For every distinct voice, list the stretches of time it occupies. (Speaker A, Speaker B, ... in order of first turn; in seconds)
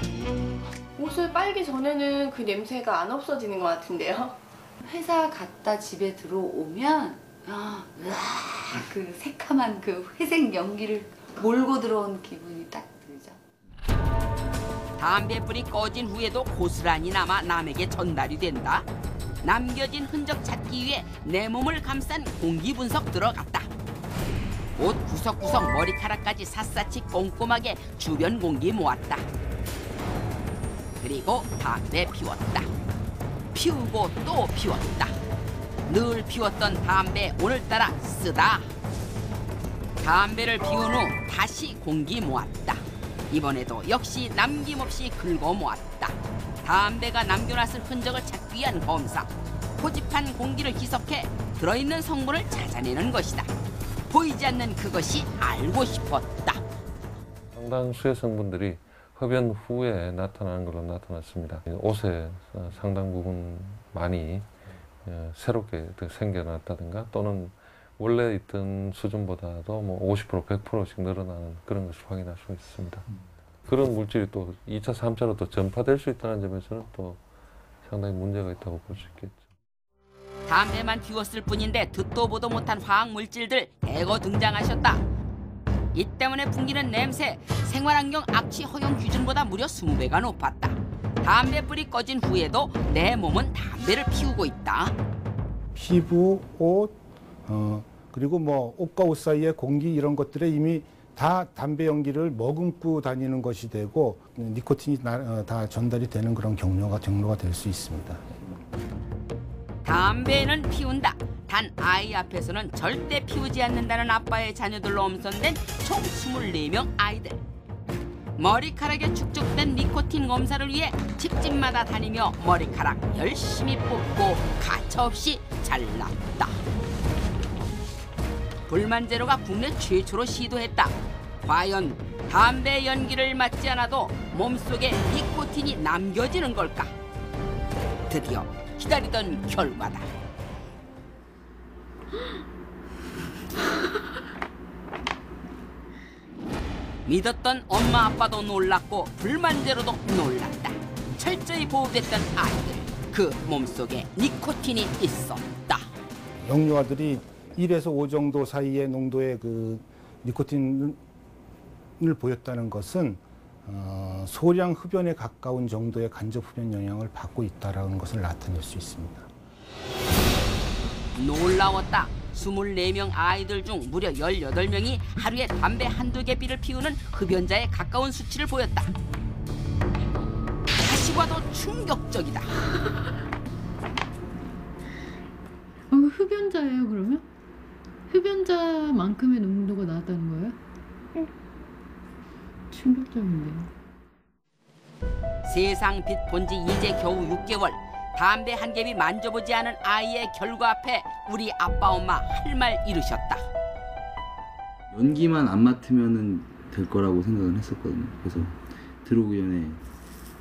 Speaker A: 0.9-4.4
Speaker B: 4.8-13.4
Speaker C: 15.0-18.8, 19.4-23.7, 24.8-29.2, 31.0-32.7, 33.5-35.1, 35.9-38.7, 40.0-53.5, 54.1-56.6, 80.5-85.0, 85.9-94.9, 109.8-117.4, 118.4-126.6, 128.7-136.9, 138.1-140.1, 147.1-155.8, 171.2-178.9, 180.8-182.5, 195.4-203.4
Speaker D: 57.5-64.5, 65.0-73.1, 73.7-77.2, 77.8-79.4
Speaker E: 95.7-108.3, 156.4-161.0, 162.0-169.3
Speaker F: 185.9-187.2, 188.1-190.6, 192.7-193.7
Speaker G: 204.9-209.8